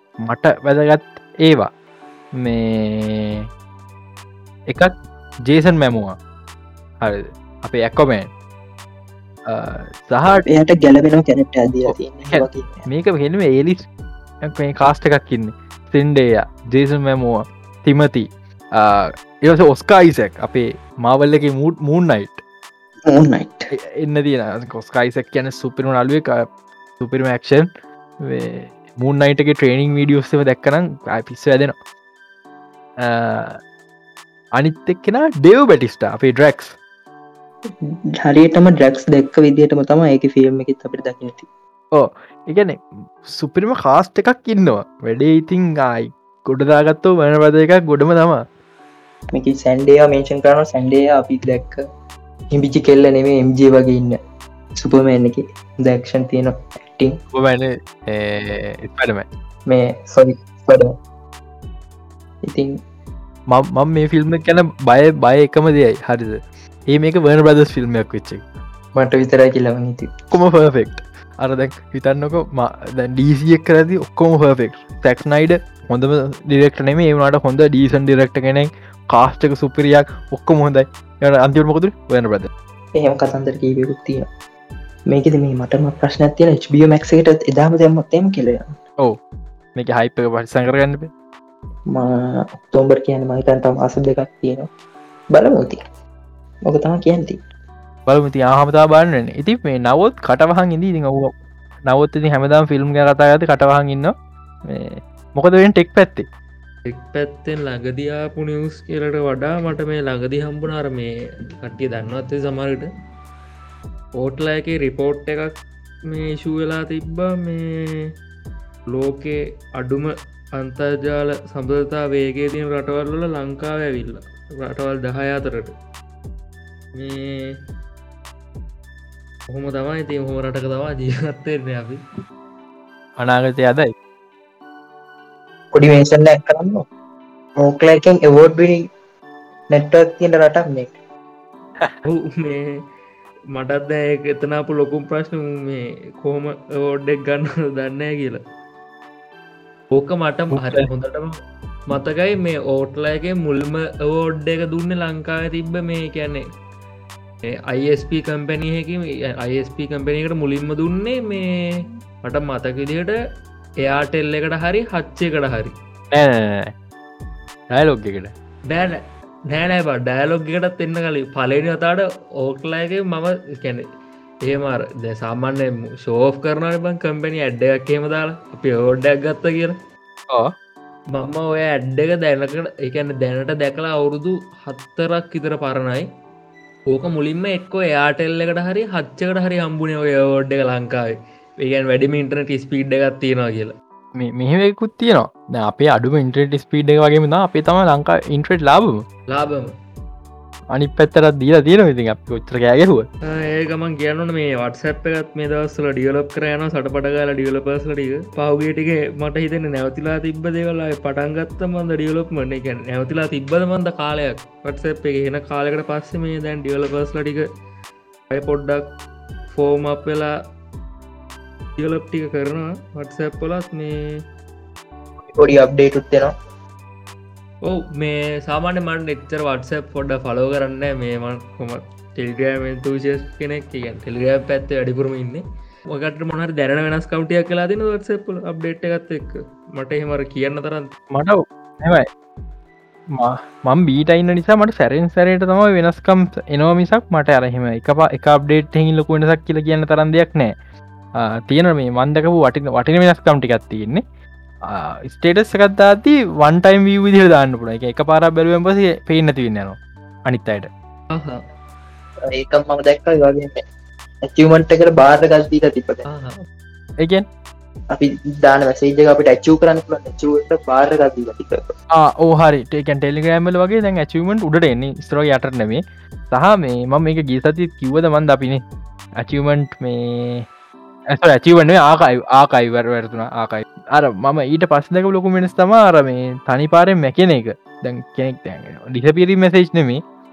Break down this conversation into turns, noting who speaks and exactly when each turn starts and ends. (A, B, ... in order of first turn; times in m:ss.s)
0:00.2-0:01.7 A
0:02.4-0:03.5 A
0:05.4-0:06.2 A
0:07.0-0:08.3 A
0:09.5-0:10.4 A
0:10.5-0:12.9 B
0:11.9-0:13.8 A
0:14.4-0:22.4 A
0:23.1-0:23.7 B
0:23.8-0:26.5 A
0:27.0-0:27.7 A
0:28.2-0:31.8 A
0:33.0-0:33.6 A
0:34.6-0:36.8 A
0:38.2-0:41.5 B
0:41.9-0:48.4 A
0:49.3-0:51.8 B
0:52.5-0:54.2 B
0:54.8-0:57.2 B
0:57.3-0:59.3 A
0:59.7-1:01.0 B
1:02.4-1:02.8 B
1:03.5-1:08.4 A
1:09.0-1:10.1 B
1:10.3-1:22.5 A
1:23.0-1:24.3 B
1:25.1-1:28.7 B
1:29.8-1:31.1 A
1:31.9-1:34.7 B
1:35.3-1:35.8 B
1:36.7-1:37.4 B
1:38.1-1:41.3 A
1:41.9-1:44.1 A
1:44.6-1:46.3 A
1:46.9-1:52.9 C
1:54.2-1:55.5 C
1:56.1-1:58.1 C
1:58.9-2:05.7 C
2:07.0-2:07.6 C
2:09.5-2:12.0 C
2:13.2-2:13.9 A
2:15.7-2:16.8 B
2:17.6-2:18.9 B
2:19.7-2:21.0 B
2:22.1-2:22.8 C
2:23.5-2:28.4 C
2:29.9-2:36.4 C
2:30.5-2:30.9 A
2:37.5-2:43.2 C
2:43.8-2:45.8 C
2:46.1-2:46.7 A
2:47.7-2:48.3 A
2:48.7-2:53.9 C
2:54.5-2:59.8 C
3:01.2-3:06.1 C
3:06.9-3:13.8 C
3:14.2-3:19.0 A
3:19.3-3:19.8 C
3:20.7-3:23.1 A
3:23.3-3:37.5 C
3:38.3-3:38.9 C
3:39.5-3:40.3 C
3:41.8-3:44.2 C
3:45.3-3:46.3 B
3:47.6-4:00.9 C
4:01.1-4:02.1 A
4:03.1-4:10.6 A
4:11.2-4:14.0 A
4:14.6-4:20.7 A
4:21.1-4:21.4 C
4:22.3-4:23.6 B
4:24.2-4:26.0 B
4:26.1-4:26.4 C
4:27.0-4:27.3 A
4:27.9-4:31.6 B
4:32.0-4:38.6 A
4:39.2-4:40.5 A
4:41.1-4:50.0 A